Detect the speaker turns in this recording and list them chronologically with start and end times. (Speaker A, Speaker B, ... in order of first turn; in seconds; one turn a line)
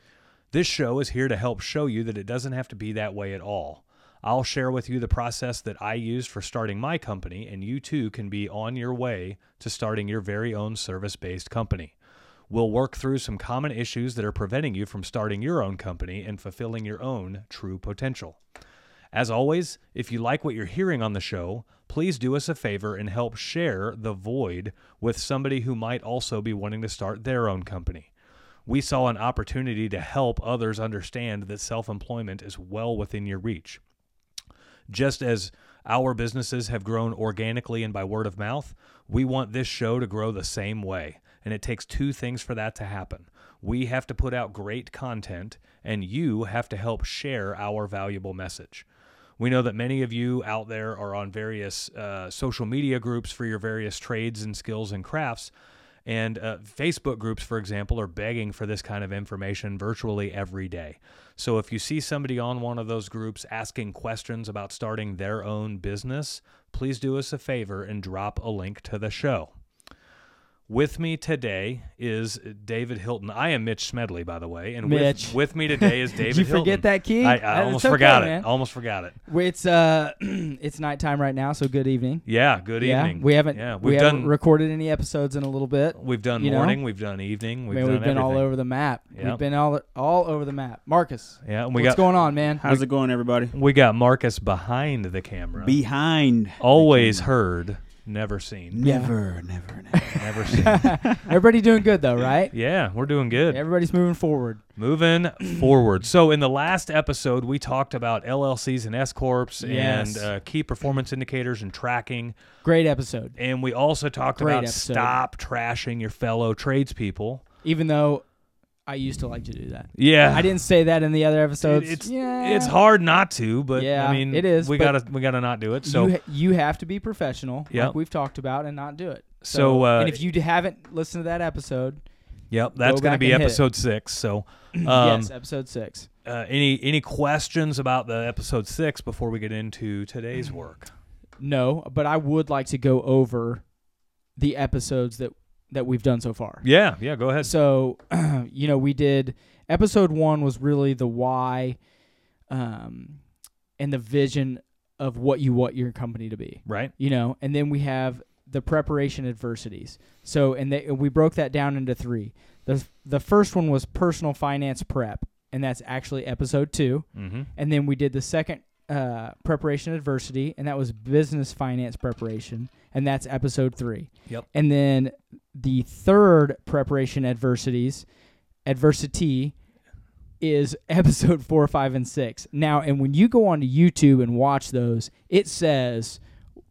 Speaker A: 0.5-11.9
Speaker A: 12.5-18.4
Speaker A: 19.1-28.1
Speaker A: 28.6-33.8
Speaker A: 34.9-48.9
Speaker A: 49.4-55.5
Speaker A: 56.0-69.5
Speaker A: 70.7-79.2
Speaker B: 74.8-78.5
Speaker B: 79.2-82.2
Speaker A: 82.2-84.3
Speaker B: 82.8-86.8
Speaker A: 86.0-88.5
Speaker B: 87.7-92.6
Speaker A: 89.1-89.4
Speaker A: 91.4-92.1
Speaker C: 92.6-93.5
Speaker A: 93.5-95.8
Speaker C: 95.6-97.3
Speaker A: 96.6-98.9
Speaker C: 98.7-101.3
Speaker B: 98.8-99.1
Speaker B: 99.9-102.5
Speaker A: 100.1-100.9
Speaker A: 102.5-103.6
Speaker B: 103.5-104.6
Speaker A: 104.8-112.3
Speaker B: 109.6-110.3
Speaker B: 112.6-113.4
Speaker A: 113.4-117.4
Speaker B: 114.4-115.2
Speaker B: 117.6-118.2
Speaker B: 118.9-122.8
Speaker A: 120.0-120.5
Speaker A: 121.6-126.1
Speaker B: 123.7-125.0
Speaker B: 125.8-132.0
Speaker A: 129.4-130.2
Speaker A: 132.5-135.3
Speaker B: 132.8-133.6
Speaker B: 134.7-136.1
Speaker A: 136.2-140.9
Speaker B: 141.4-143.6
Speaker B: 144.3-146.6
Speaker A: 146.6-147.5
Speaker B: 147.4-151.8
Speaker B: 152.5-153.2
Speaker B: 153.8-178.1
Speaker A: 156.7-156.9
Speaker A: 167.1-167.5
Speaker B: 178.7-179.5
Speaker B: 180.4-186.2